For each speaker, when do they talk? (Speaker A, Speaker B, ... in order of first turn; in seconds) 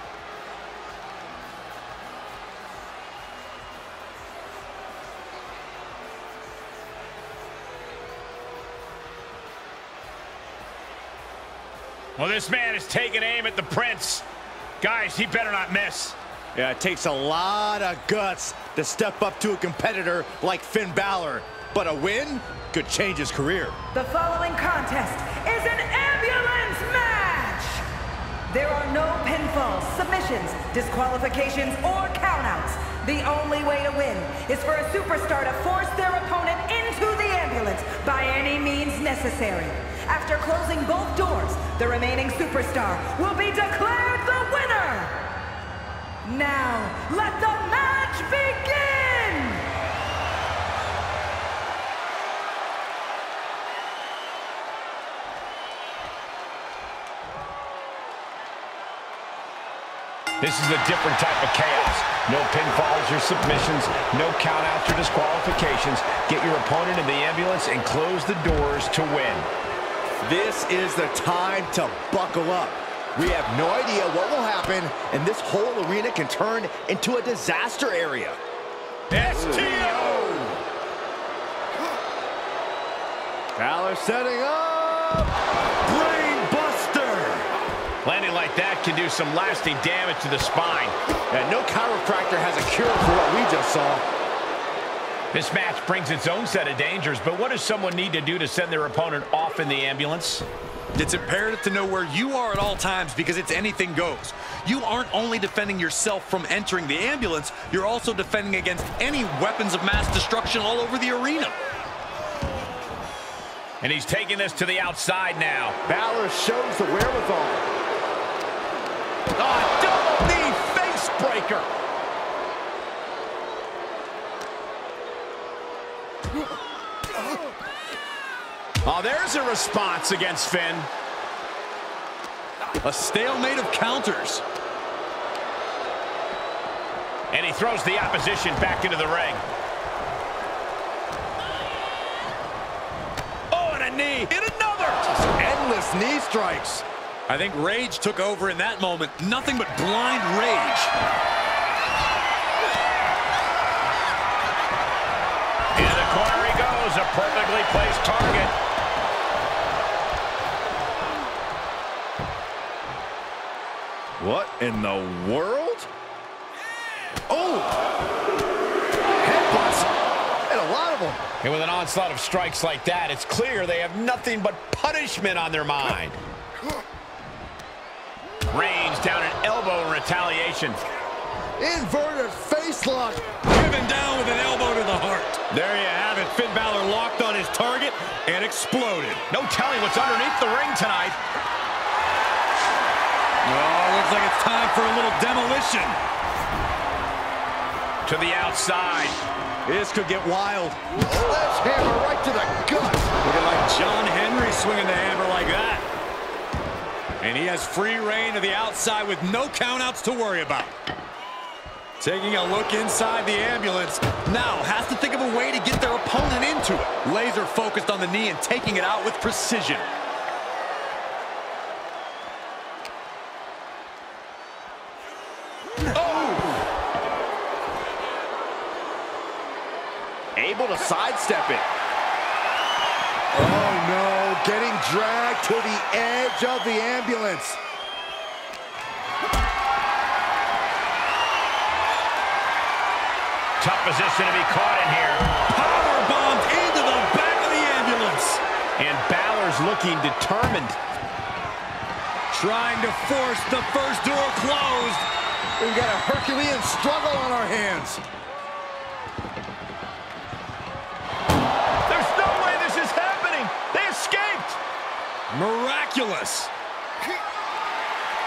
Speaker A: 12.2-14.2, 14.8-16.2, 60.4-69.5, 88.0-91.0, 95.3-100.5, 113.8-115.8, 119.4-121.7, 128.8-130.9, 137.3-139.4, 143.5-145.2, 155.8-158.6, 171.4-176.2, 178.5-180.8, 189.3-191.2, 198.1-199.2, 243.6-245.3, 248.8-250.8, 261.9-264.6
Speaker B: 16.6-23.8, 70.2-78.4, 79.2-80.6, 83.6-85.3, 91.3-94.0, 115.9-117.7, 145.3-146.8, 164.2-165.9, 167.3-167.8, 169.2-169.9, 170.5-171.3, 181.6-183.3, 199.7-203.1, 226.0-226.6, 230.4-231.7, 233.3-237.6, 255.6-258.0
Speaker C: 23.9-27.8, 28.5-45.3, 46.2-49.7
Speaker D: 79.1-80.6, 85.9-87.5, 101.0-111.6, 132.8-134.4, 147.3-150.9, 183.5-189.2, 193.4-196.0, 203.2-205.8, 207.2-210.7, 212.0-219.9, 245.4-248.4, 252.3-255.1, 265.3-266.5